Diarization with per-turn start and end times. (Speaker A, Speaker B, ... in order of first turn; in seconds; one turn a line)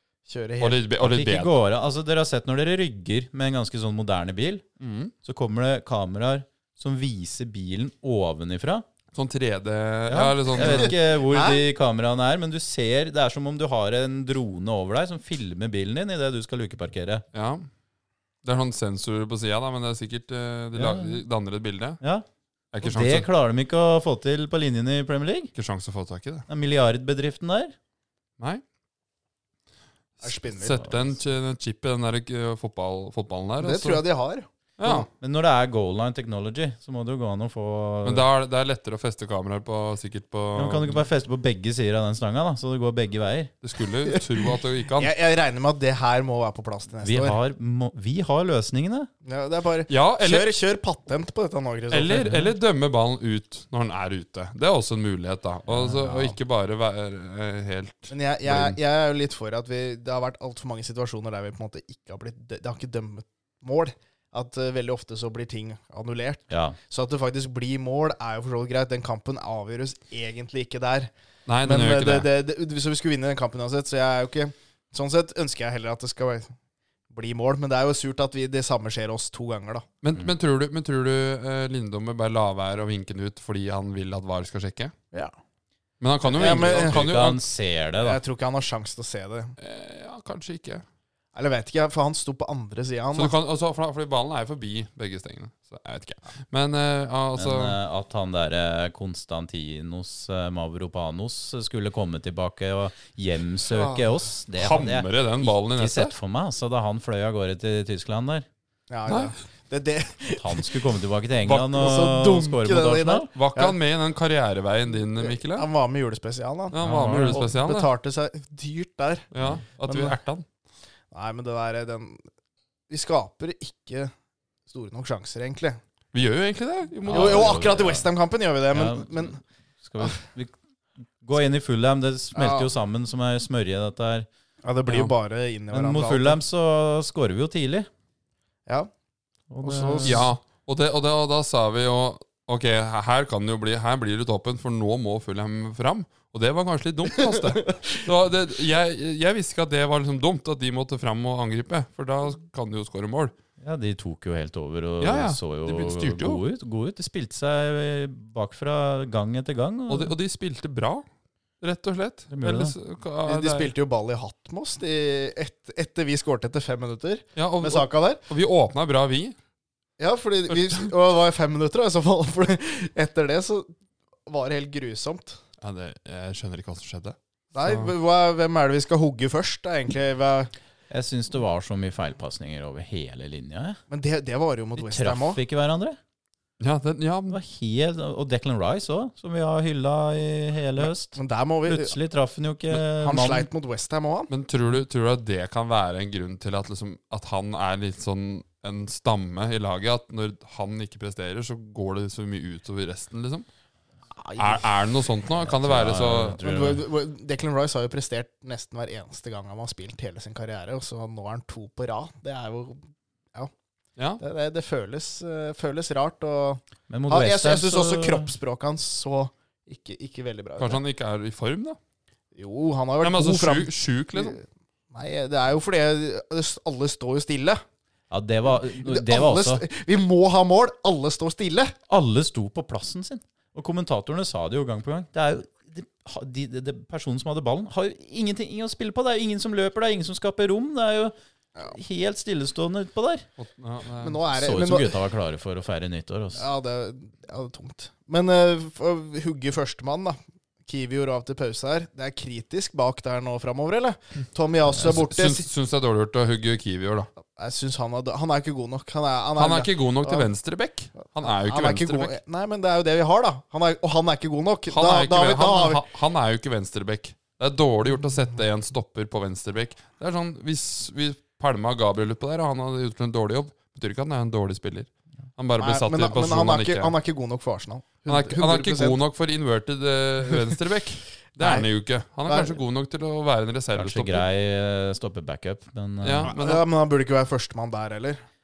Speaker A: 0.3-0.8
Speaker B: 0.6-1.5
Speaker C: 1.0-4.6
Speaker B: 4.8-5.1
Speaker C: 5.2-8.8
Speaker B: 9.1-10.9
Speaker C: 10.1-17.2
Speaker A: 10.6-11.6
Speaker B: 17.3-17.6
Speaker B: 18.4-22.0
Speaker C: 20.7-21.2
Speaker C: 22.0-22.2
Speaker B: 22.7-23.3
Speaker C: 22.8-25.5
Speaker B: 25.5-26.4
Speaker C: 26.5-27.7
Speaker B: 30.2-34.0
Speaker A: 30.2-30.8
Speaker C: 30.8-31.1
Speaker A: 33.6-35.0
Speaker B: 34.8-35.1
Speaker C: 35.1-38.2
Speaker B: 38.0-41.0
Speaker C: 40.5-43.5
Speaker B: 43.6-45.1
Speaker A: 44.0-44.4
Speaker A: 45.0-47.4
Speaker C: 47.0-49.1
Speaker A: 49.2-52.2
Speaker B: 49.9-50.5
Speaker B: 51.9-58.8
Speaker C: 52.1-52.5
Speaker C: 55.7-56.2
Speaker A: 58.1-71.1
Speaker C: 66.5-66.8
Speaker B: 71.5-72.3
Speaker A: 71.6-76.5
Speaker A: 77.1-79.8
Speaker B: 80.0-84.9
Speaker B: 86.0-87.4
Speaker A: 86.2-87.0
Speaker C: 86.4-88.2
Speaker A: 88.0-89.5
Speaker B: 89.6-90.8
Speaker A: 91.3-93.3
Speaker B: 93.1-97.8
Speaker C: 97.3-108.5
Speaker A: 103.7-104.2
Speaker B: 104.5-106.1
Speaker A: 108.9-110.9
Speaker B: 109.1-109.3
Speaker C: 110.4-113.3
Speaker B: 111.4-111.8
Speaker A: 111.7-113.8
Speaker B: 113.3-115.7
Speaker A: 115.2-119.3
Speaker B: 116.7-117.9
Speaker C: 116.8-117.4
Speaker B: 119.3-120.5
Speaker A: 119.8-120.1
Speaker A: 121.1-122.2
Speaker A: 122.9-124.1
Speaker A: 124.7-125.8
Speaker B: 126.1-127.6
Speaker C: 127.0-128.1
Speaker A: 127.1-129.4
Speaker C: 128.7-129.2
Speaker C: 129.8-130.5
Speaker C: 131.2-134.3
Speaker A: 132.3-132.7
Speaker A: 134.6-136.4
Speaker C: 135.7-137.9
Speaker C: 139.5-140.3
Speaker A: 139.6-140.3
Speaker B: 140.0-153.3
Speaker A: 147.2-148.0
Speaker C: 153.6-160.1
Speaker B: 155.0-156.4
Speaker B: 159.9-161.0
Speaker B: 161.6-163.7
Speaker C: 162.3-162.7
Speaker A: 163.2-168.2
Speaker B: 167.3-169.3
Speaker A: 170.0-173.7
Speaker A: 174.3-175.4
Speaker B: 175.6-177.9
Speaker A: 177.5-180.5
Speaker C: 180.9-183.8
Speaker A: 183.9-185.4
Speaker C: 184.8-186.0
Speaker B: 186.6-187.4
Speaker C: 187.3-193.5
Speaker A: 190.8-191.9
Speaker A: 193.0-194.3
Speaker B: 194.3-203.4
Speaker A: 204.2-204.7
Speaker B: 204.4-206.4
Speaker C: 205.4-206.8
Speaker A: 206.4-213.5
Speaker A: 214.2-220.8
Speaker C: 216.9-218.3
Speaker B: 220.6-221.8
Speaker A: 222.3-227.6
Speaker B: 223.0-224.4
Speaker C: 228.1-229.6
Speaker A: 228.6-231.7
Speaker C: 231.9-243.2
Speaker B: 243.4-244.2
Speaker A: 244.0-245.0
Speaker C: 244.3-246.4
Speaker A: 246.3-255.5
Speaker B: 254.8-257.1
Speaker A: 257.3-260.3
Speaker B: 259.4-262.1
Speaker A: 261.0-265.8
Speaker B: 264.7-276.9
Speaker A: 275.6-279.0
Speaker B: 278.1-284.2
Speaker A: 281.4-281.7
Speaker A: 282.3-282.6
Speaker C: 283.7-286.3
Speaker B: 286.0-286.6
Speaker A: 286.2-288.2